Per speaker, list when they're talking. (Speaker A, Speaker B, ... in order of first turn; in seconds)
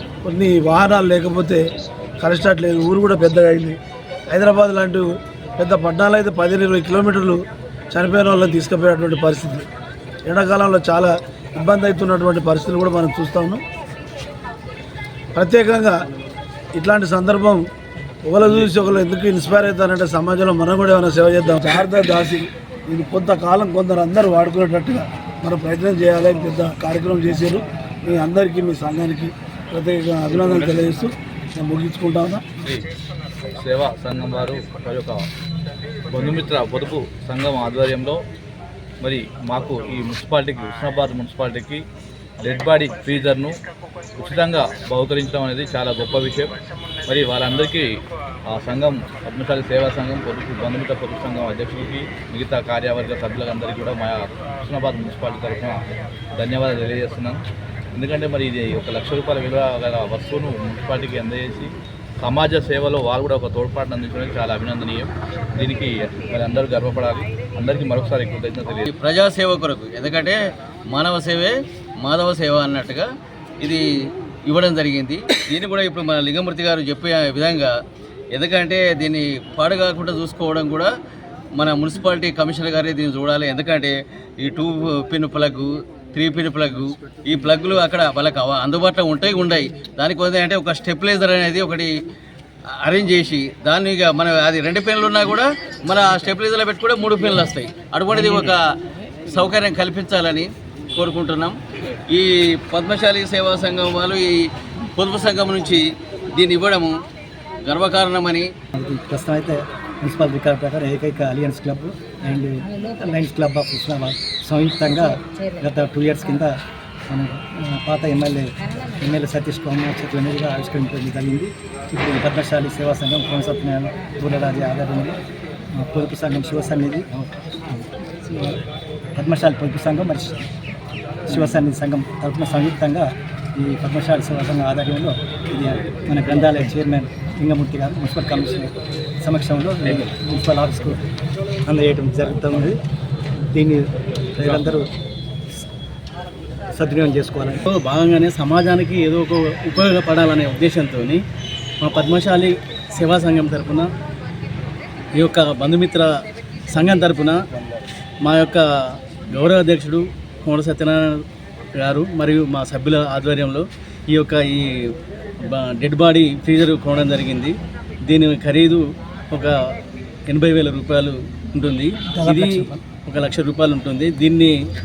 Speaker A: 0.2-1.6, 2.2-3.8, 4.3-7.4, 7.9-9.6, 10.2-13.6, 15.3-16.0, 16.7-17.7, 18.2-32.4
Speaker B: 33.5-35.2, 36.1-38.2, 39.0-41.8, 42.4-43.6, 44.2-46.5, 47.0-55.8, 56.3-57.4, 57.9-68.9, 144.4-144.7
Speaker C: 68.9-70.4, 70.9-73.1, 74.5-77.7, 78.3-80.9, 81.5-91.9, 92.8-98.6, 99.3-101.6, 102.1-104.3, 105.0-107.0, 107.6-108.5
Speaker D: 98.2-98.5, 147.6-151.2, 151.8-153.9, 155.2-156.1, 156.7-157.4, 158.2-158.6, 159.3-161.1, 161.8-164.7, 165.5-167.5, 168.1-169.6, 170.3-174.5
Speaker E: 108.7-116.5, 117.1-125.2, 125.8-128.6, 129.2-130.5, 131.3-141.1, 141.7-142.8, 143.5-144.9, 146.7-147.6, 172.1-172.8